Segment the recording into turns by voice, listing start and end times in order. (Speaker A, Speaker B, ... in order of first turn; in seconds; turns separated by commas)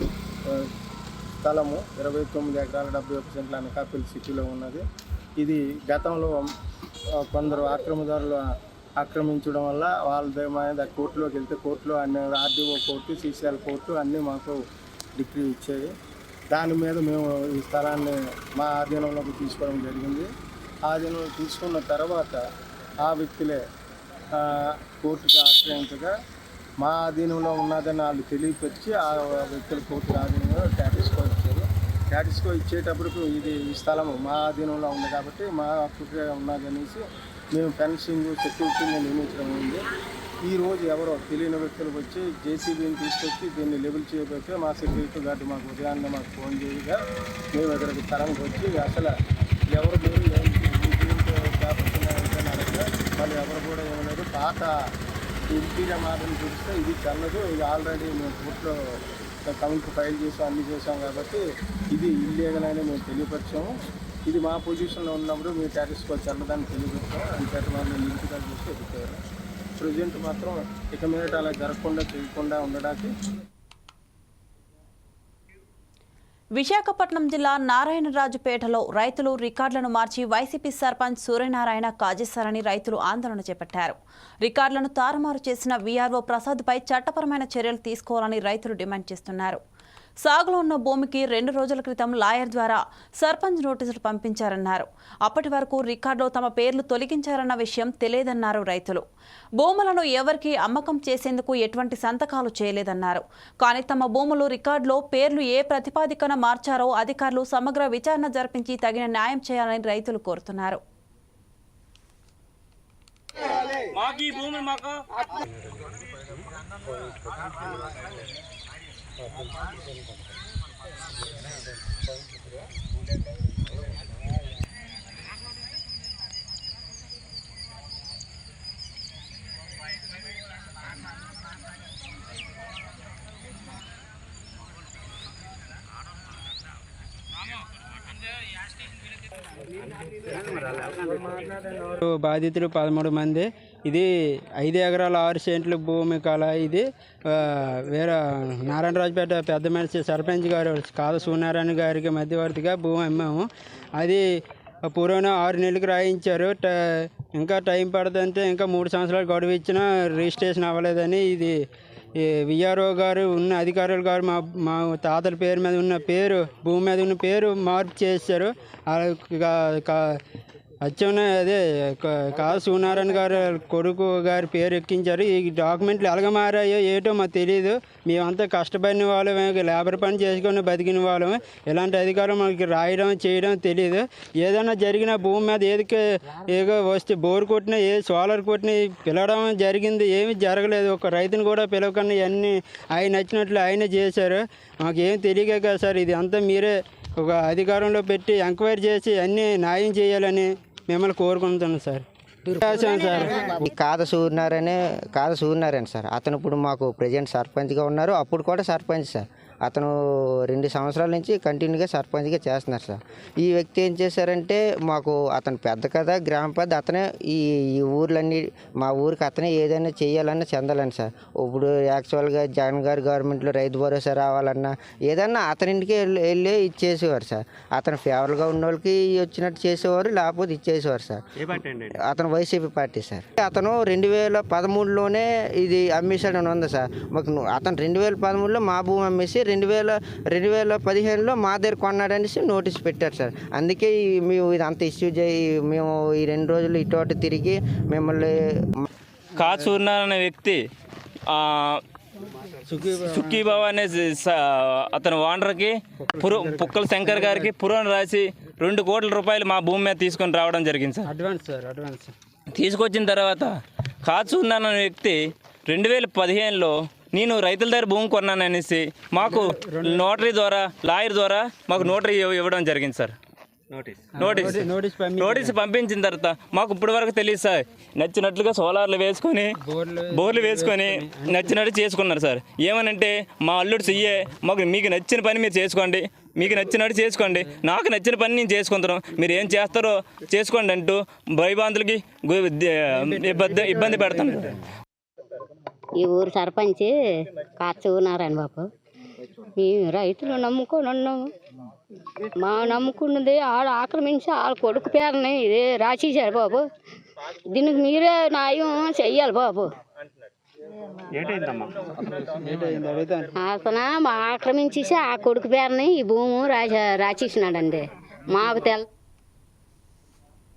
Speaker A: 1.4-4.8, Speaker A: 5.4-6.5, Speaker A: 7.3-8.4, Speaker A: 9.0-14.6, Speaker A: 15.2-15.9, Speaker A: 16.5-20.3, Speaker A: 20.9-22.4, Speaker A: 23.0-23.6, Speaker A: 24.4-26.1, Speaker A: 26.8-39.8, Speaker A: 40.4-47.0, Speaker A: 47.5-49.1, Speaker A: 49.7-54.7, Speaker A: 55.5-58.7, Speaker A: 59.5-61.4, Speaker A: 61.9-63.7, Speaker A: 64.2-69.2, Speaker A: 69.8-73.1, Speaker B: 76.5-89.6, Speaker B: 90.2-99.0, Speaker B: 99.6-110.8, Speaker C: 113.9-114.9, Speaker D: 142.0-144.0, Speaker D: 144.7-146.8, Speaker D: 148.7-153.4, Speaker D: 154.9-156.6, Speaker D: 157.4-161.5, Speaker D: 162.5-164.3, Speaker D: 165.0-168.4, Speaker D: 169.2-169.9, Speaker D: 170.8-171.6, Speaker D: 172.3-186.0, Speaker D: 186.5-194.3, Speaker D: 194.9-196.7, Speaker D: 197.2-203.4, Speaker E: 203.3-209.9, Speaker E: 210.5-248.8, Speaker C: 249.4-250.7, Speaker C: 251.3-251.8, Speaker D: 252.7-253.4, Speaker C: 252.9-261.1, Speaker D: 256.0-257.4, Speaker D: 261.1-262.1, Speaker C: 262.5-273.1, Speaker D: 269.3-269.9, Speaker D: 274.1-275.5, Speaker C: 274.2-274.6, Speaker C: 275.2-279.5, Speaker D: 279.7-281.3, Speaker C: 280.1-294.6, Speaker F: 296.0-298.7, Speaker F: 299.6-301.3, Speaker F: 302.4-306.6, Speaker F: 307.5-309.7, Speaker D: 312.4-313.3, Speaker F: 313.4-318.8